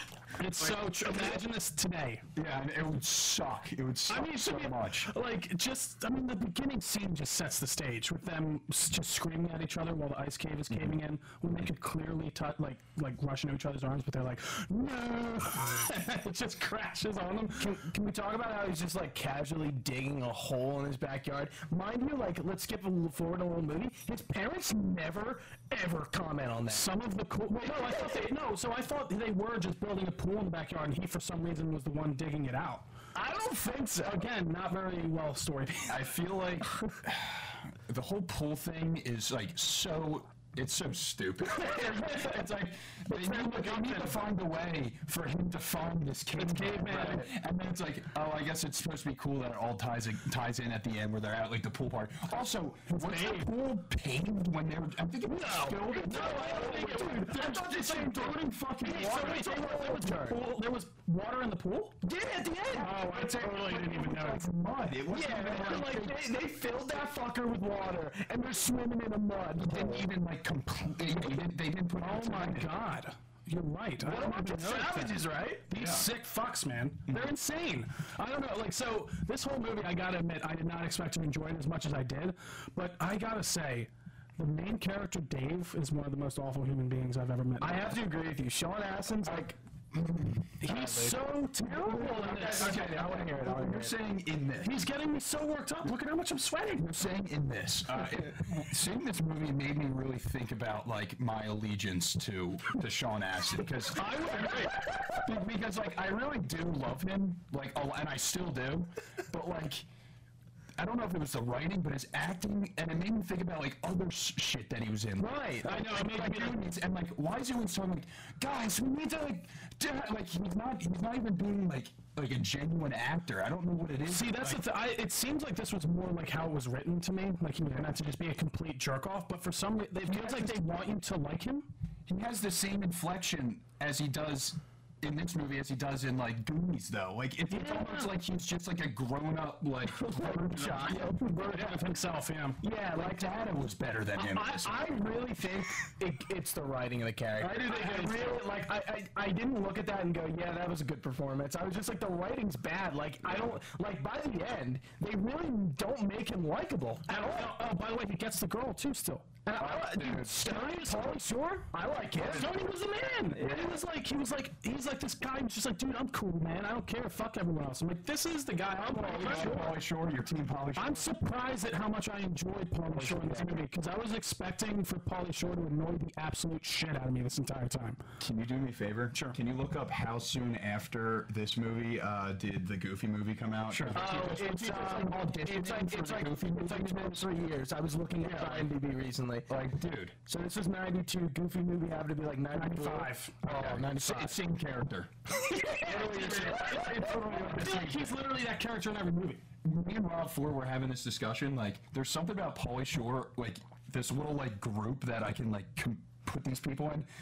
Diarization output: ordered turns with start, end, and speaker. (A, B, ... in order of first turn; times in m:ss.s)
0:00.4-0:02.2 A
0:02.4-0:05.1 B
0:04.1-0:17.8 A
0:17.6-0:26.9 C
0:26.7-0:32.9 A
0:27.6-0:28.3 C
0:33.2-0:34.3 C
0:34.0-0:36.0 A
0:35.9-0:59.2 B
0:41.5-0:42.4 C
0:43.1-0:44.2 A
0:46.3-0:47.3 A
0:52.9-0:53.5 A
0:55.2-1:00.4 C
0:55.8-1:02.0 A
1:02.0-1:02.9 C
1:02.7-1:04.4 A
1:02.7-1:06.1 B
1:05.1-1:10.1 C
1:05.5-1:06.1 A
1:09.6-1:12.7 B
1:12.0-1:28.0 A
1:14.0-1:15.7 C
1:15.7-1:16.1 B
1:27.6-1:29.6 C
1:29.2-1:30.6 B
1:30.6-1:34.0 C
1:30.6-1:32.9 A
1:32.4-1:34.8 B
1:34.6-1:37.0 A
1:36.7-1:49.9 B
1:43.9-1:44.9 A
1:44.4-1:45.2 C
1:50.8-2:04.6 B
1:55.2-1:55.8 C
1:55.6-1:56.7 A
2:04.0-2:11.7 A
2:12.1-2:21.1 B
2:17.5-2:18.1 A
2:19.9-2:21.9 C
2:21.0-2:22.6 A
2:22.6-2:23.3 C
2:22.9-2:24.8 B
2:24.2-2:37.5 C
2:27.4-2:28.5 A
2:33.2-2:33.6 B
2:37.1-2:39.4 A
2:39.5-2:42.5 C
2:39.6-2:40.4 B
2:40.4-2:41.3 A
2:42.1-2:42.6 B
2:42.2-2:49.7 A
2:43.4-2:43.8 C
2:48.8-2:49.8 C
2:49.0-2:51.1 B
2:50.8-2:58.0 A
2:52.9-2:53.6 C
2:58.2-3:07.3 B
3:03.7-3:05.2 A
3:03.9-3:09.5 C
3:08.2-3:08.7 A
3:09.5-3:10.2 B
3:10.3-3:14.4 C
3:12.5-3:13.4 A
3:13.4-3:15.2 B
3:15.4-3:17.8 C
3:15.5-3:19.4 A
3:15.7-3:18.2 B
3:19.6-3:27.1 B